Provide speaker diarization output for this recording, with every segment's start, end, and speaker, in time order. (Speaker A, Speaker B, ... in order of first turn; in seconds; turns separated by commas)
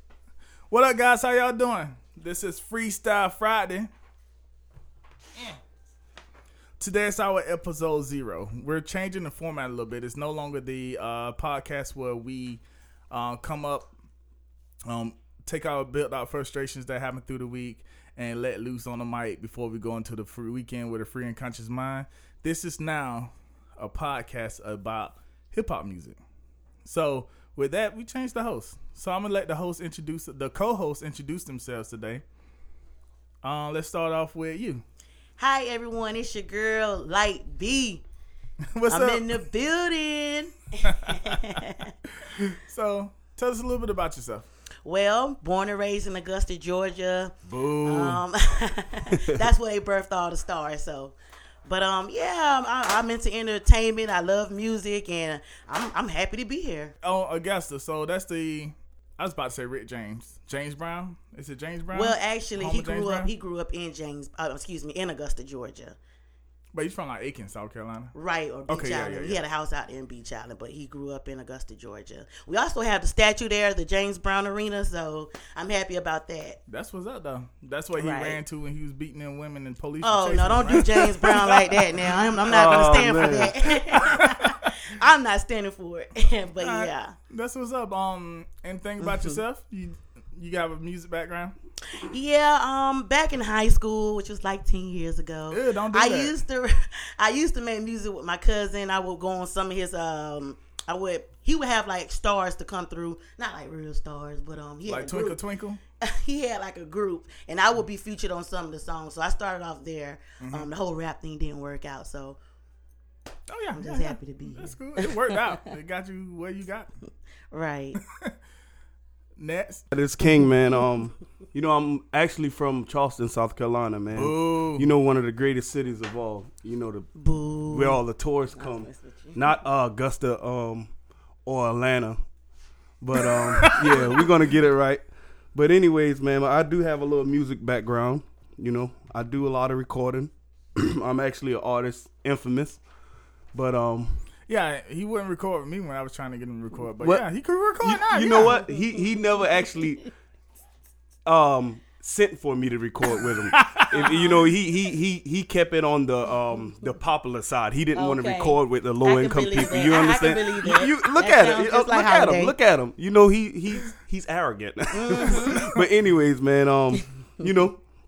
Speaker A: 0.7-3.9, Speaker A: 6.8-13.9, Speaker A: 14.8-26.2, Speaker A: 26.8-32.2, Speaker A: 33.4-34.8, Speaker B: 35.4-38.0, Speaker A: 38.7-39.4, Speaker B: 38.9-41.9, Speaker A: 40.8-41.7, Speaker A: 42.2-44.5, Speaker B: 44.8-56.9, Speaker A: 47.5-48.1, Speaker C: 49.1-49.4, Speaker A: 57.0-63.3, Speaker B: 61.9-66.0, Speaker A: 66.7-68.1, Speaker B: 68.1-76.6, Speaker A: 68.7-69.4, Speaker A: 76.7-82.0, Speaker B: 78.0-78.4, Speaker B: 80.0-87.1, Speaker C: 80.9-81.2, Speaker C: 82.5-84.2, Speaker A: 86.6-91.5, Speaker B: 89.0-89.3, Speaker B: 91.9-105.4, Speaker A: 95.5-96.4, Speaker A: 104.8-105.8, Speaker B: 106.0-112.4, Speaker A: 110.4-110.7, Speaker A: 113.5-116.9, Speaker B: 113.7-115.6, Speaker B: 117.5-118.0, Speaker A: 119.4-119.8, Speaker C: 119.9-127.1, Speaker A: 124.1-124.9, Speaker B: 127.1-128.0, Speaker C: 127.7-130.9, Speaker B: 128.6-129.4, Speaker C: 131.4-132.2, Speaker C: 133.0-142.8, Speaker A: 133.2-134.3, Speaker C: 143.5-144.2, Speaker A: 144.5-148.6, Speaker C: 147.0-147.2, Speaker C: 147.8-150.1, Speaker B: 148.8-149.0, Speaker C: 151.2-167.8, Speaker A: 153.5-154.5, Speaker B: 157.9-162.5, Speaker B: 164.9-165.7, Speaker A: 165.3-165.8